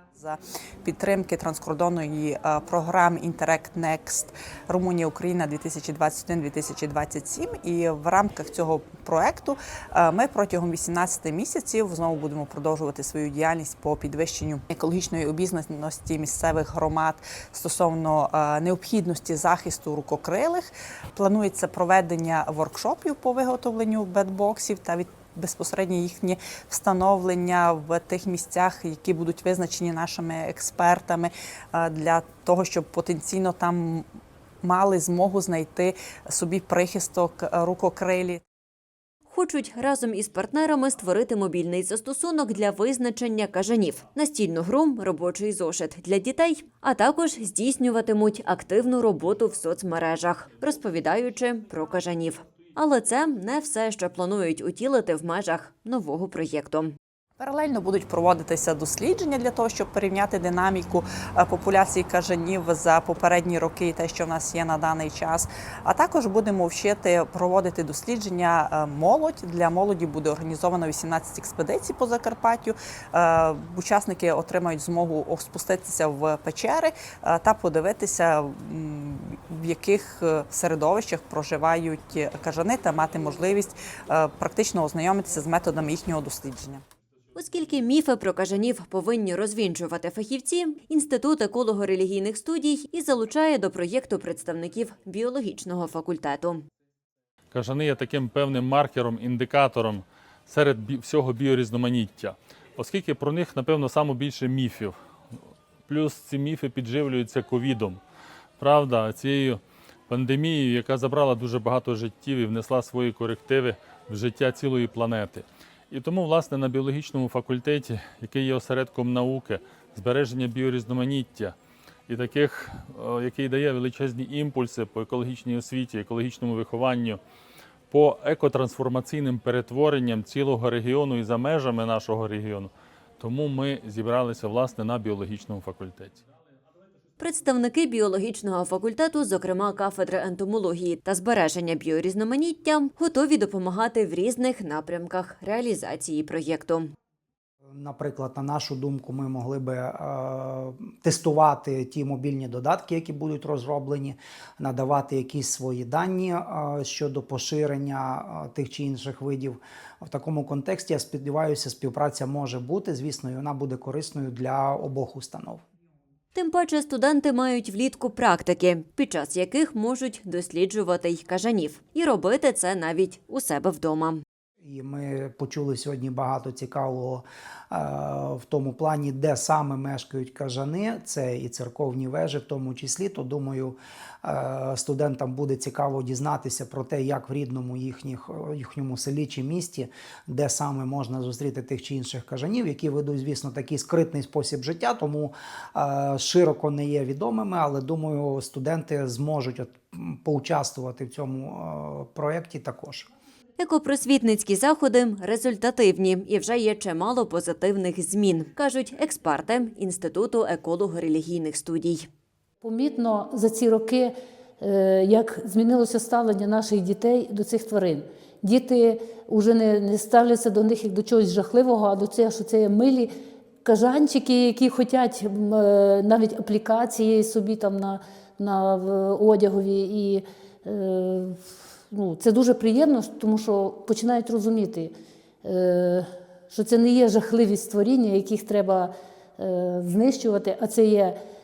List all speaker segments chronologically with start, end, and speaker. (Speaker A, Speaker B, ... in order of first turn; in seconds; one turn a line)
Speaker A: 0.1-34.0
Speaker A: 34.6-38.4
Speaker B: 39.3-56.9
Speaker A: 57.4-86.8
Speaker B: 87.3-96.6
Speaker C: 97.5-105.0
Speaker C: 105.9-108.0
Speaker C: 108.6-121.5
Speaker C: 122.1-127.2
Speaker C: 127.9-136.2
Speaker B: 137.2-146.9
Speaker D: 147.7-165.6
Speaker B: 166.3-174.2
Speaker D: 174.6-203.1
Speaker B: 203.6-212.1
Speaker E: 212.6-223.1
Speaker E: 223.6-231.4
Speaker E: 231.9-234.9
Speaker E: 235.4-241.1